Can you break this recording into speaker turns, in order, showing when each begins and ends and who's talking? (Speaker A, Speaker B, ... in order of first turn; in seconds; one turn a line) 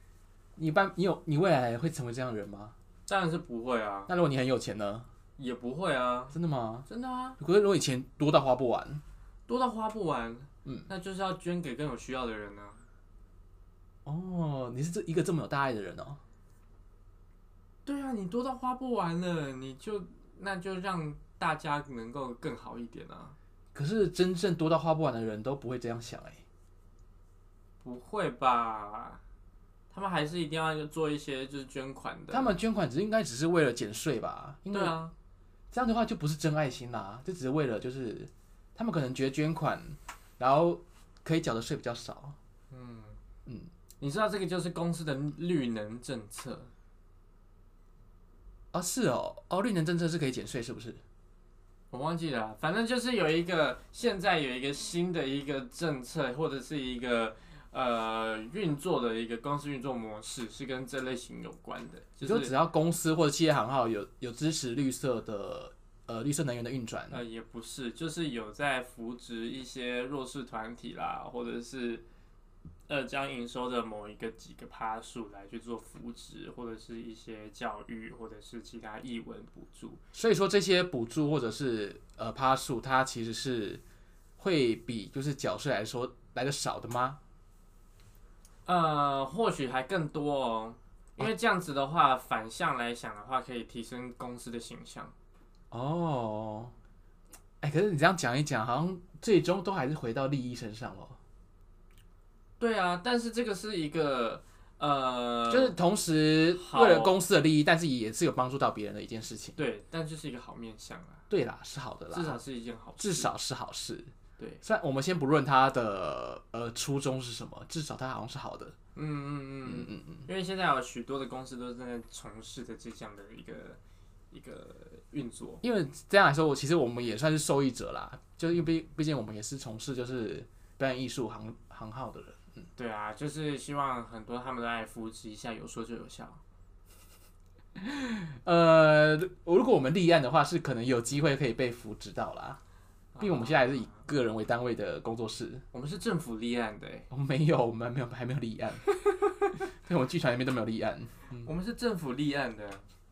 Speaker A: 0.6-2.8
Speaker B: 3.1-4.1
Speaker A: 4.1-5.1
Speaker B: 5.4-6.4
Speaker A: 6.3-6.9
Speaker B: 6.9-7.4
Speaker A: 7.4-9.0
Speaker B: 9.5-12.8
Speaker A: 14.1-16.2
Speaker B: 17.9-23.4
Speaker A: 23.8-26.4
Speaker B: 27.8-29.2
Speaker B: 29.9-32.5
Speaker A: 32.3-35.0
Speaker B: 34.7-35.1
Speaker A: 35.7-42.4
Speaker B: 42.7-43.2
Speaker B: 44.0-46.7
Speaker A: 48.7-51.0
Speaker B: 51.9-62.5
Speaker A: 62.2-67.2
Speaker B: 67.1-72.0
Speaker B: 72.9-80.0
Speaker A: 80.1-83.8
Speaker A: 84.4-87.2
Speaker B: 88.7-95.1
Speaker A: 95.7-96.7
Speaker A: 97.6-101.2
Speaker B: 102.6-105.8
Speaker A: 105.5-109.6
Speaker B: 106.5-107.2
Speaker B: 109.6-111.2
Speaker A: 111.3-112.4
Speaker B: 112.1-113.3
Speaker A: 113.0-114.1
Speaker A: 114.6-118.8
Speaker B: 119.0-123.8
Speaker A: 119.7-120.3
Speaker B: 124.3-125.6
Speaker A: 125.6-132.5
Speaker B: 132.8-136.4
Speaker A: 137.8-142.6
Speaker B: 143.2-144.0
Speaker A: 143.2-145.7
Speaker B: 145.7-147.1
Speaker A: 147.1-148.8
Speaker A: 149.7-151.5
Speaker B: 151.4-152.9